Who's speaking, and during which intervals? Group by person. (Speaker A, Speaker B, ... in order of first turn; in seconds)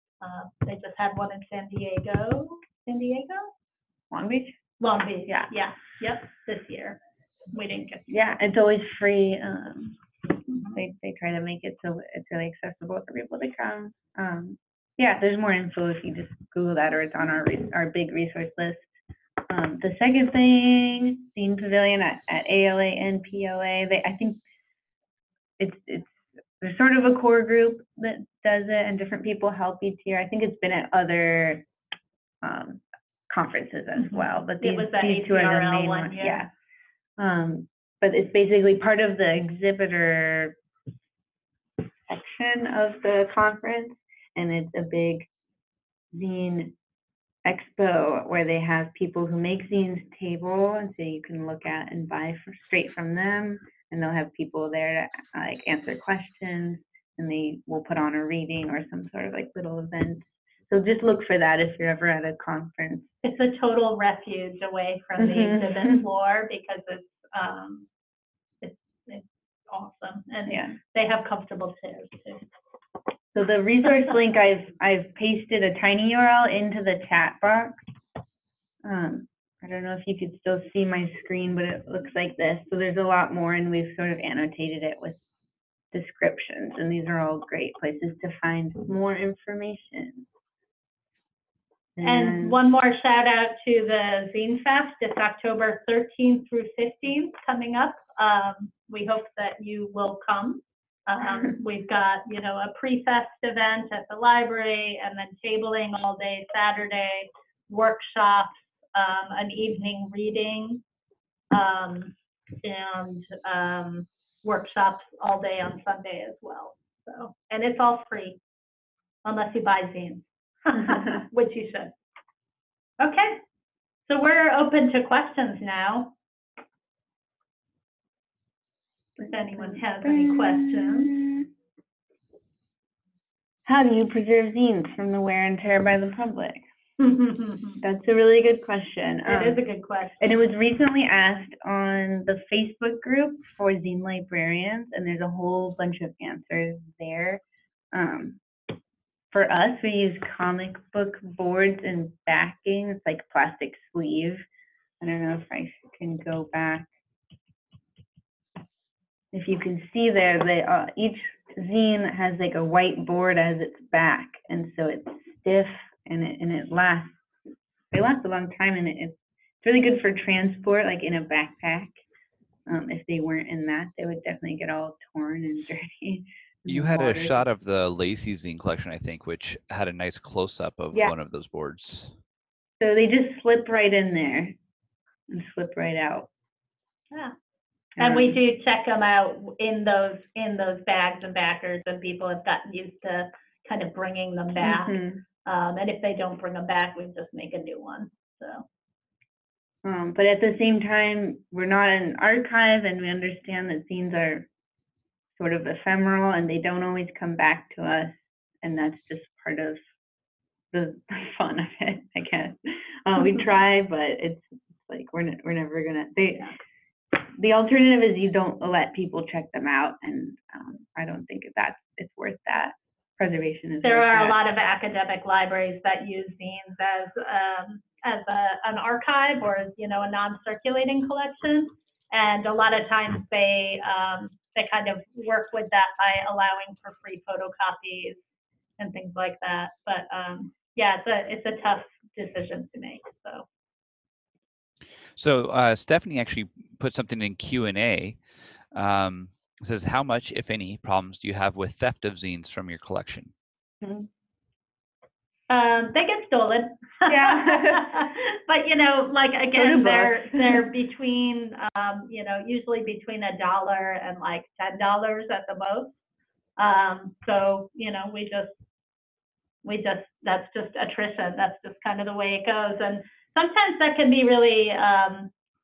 Speaker A: 0.2-3.5, 4.8-7.0, 7.5-8.1, 10.5-10.8, 34.0-36.4, 63.2-67.9, 68.6-72.5, 92.0-110.8, 111.5-118.4, 119.2-121.9, 123.0-123.4, 124.1-126.1, 129.2-131.2, 137.0-137.8, 139.3-140.2, 188.0-198.6, 223.8-238.2, 238.8-243.4, 255.5-265.9, 266.6-268.6, 269.6-275.3
Speaker B: 4.1-4.6, 5.3-5.5, 8.1-10.0, 10.7-18.8, 19.5-24.4, 25.6-31.6, 32.4-36.5, 37.2-40.5, 42.1-45.3, 46.1-46.7, 47.4-63.1, 65.2-66.0, 70.5-70.7, 73.3-77.7, 78.8-85.2, 85.9-90.3, 92.0-92.6, 129.2-131.5, 133.7-136.6, 137.8-139.6, 140.2-147.4, 147.9-148.4, 149.3-154.4, 155.0-156.9, 159.3-167.2, 167.9-172.0, 172.7-177.4, 182.8-184.6, 185.3-186.3, 188.0-188.4, 194.6-195.2, 199.8-204.5, 205.3-209.8, 210.7-216.5, 217.2-224.4, 253.8-254.1, 257.1-257.9, 259.5-260.6
Speaker C: 176.7-182.1, 245.2-253.3